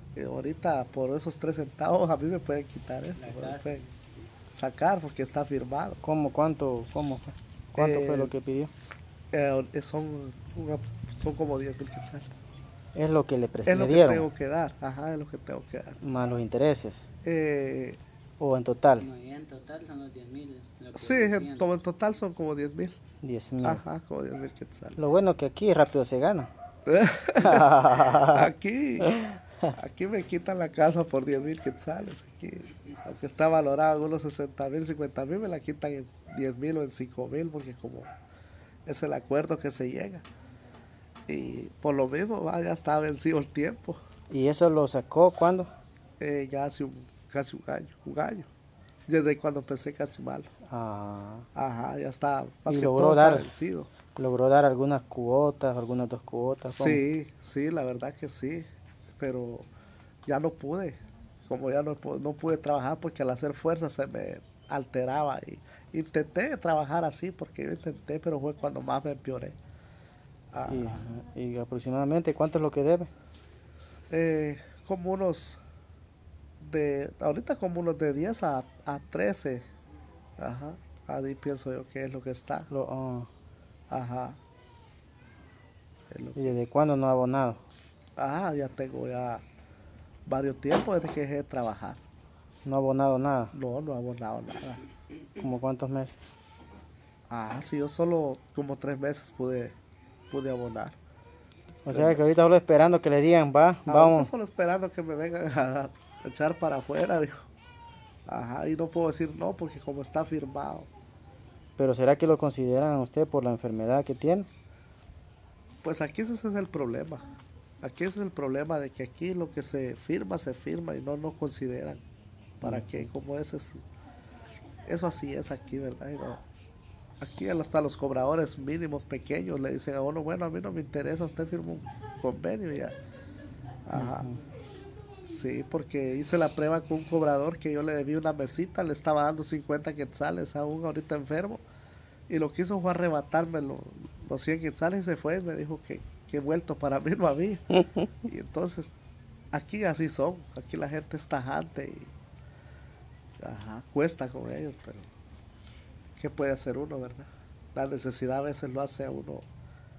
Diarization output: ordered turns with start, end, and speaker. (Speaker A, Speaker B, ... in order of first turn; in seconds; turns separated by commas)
Speaker A: 0.1-3.8, Speaker B: 3.2-4.2, Speaker A: 4.5-6.0, Speaker C: 6.0-8.7, Speaker A: 7.8-8.3, Speaker A: 9.3-12.3, Speaker C: 12.9-14.3, Speaker A: 13.7-16.0, Speaker C: 16.0-17.0, Speaker A: 17.2-18.0, Speaker C: 18.4-19.1, Speaker B: 19.0-21.7, Speaker A: 20.9-23.0, Speaker C: 23.2-23.8, Speaker A: 23.6-25.0, Speaker C: 25.0-26.5, Speaker A: 26.9-29.1, Speaker C: 27.4-28.5, Speaker C: 29.0-29.3, Speaker A: 29.7-38.1, Speaker A: 38.9-40.2, Speaker A: 41.3-44.0, Speaker C: 44.3-45.7, Speaker A: 46.2-48.5, Speaker A: 49.1-50.5, Speaker C: 50.7-51.5, Speaker A: 51.5-53.9, Speaker C: 52.7-53.5, Speaker C: 54.1-57.0, Speaker A: 56.7-58.7, Speaker A: 59.2-59.7, Speaker A: 60.2-69.5, Speaker A: 70.5-71.0, Speaker C: 70.7-73.1, Speaker A: 74.1-75.6, Speaker A: 76.6-79.6, Speaker A: 80.4-82.7, Speaker C: 82.7-83.3, Speaker A: 83.9-84.4, Speaker A: 86.1-86.6, Speaker C: 86.3-87.6, Speaker A: 88.2-89.4, Speaker A: 90.3-92.0, Speaker C: 92.6-93.5, Speaker A: 93.5-94.8, Speaker C: 95.4-96.2, Speaker A: 97.3-99.7, Speaker A: 100.3-101.0, Speaker C: 101.8-104.3, Speaker A: 101.9-102.3, Speaker A: 103.9-107.4, Speaker A: 108.3-110.9, Speaker C: 111.8-114.5, Speaker A: 115.8-117.3, Speaker A: 117.8-122.0, Speaker A: 122.6-123.8, Speaker C: 122.6-123.0, Speaker A: 124.9-126.4, Speaker A: 127.2-132.9, Speaker A: 133.8-134.3, Speaker C: 133.9-134.4, Speaker A: 135.2-141.6, Speaker A: 142.3-148.9, Speaker A: 149.5-152.1, Speaker A: 153.4-155.1, Speaker A: 156.2-159.4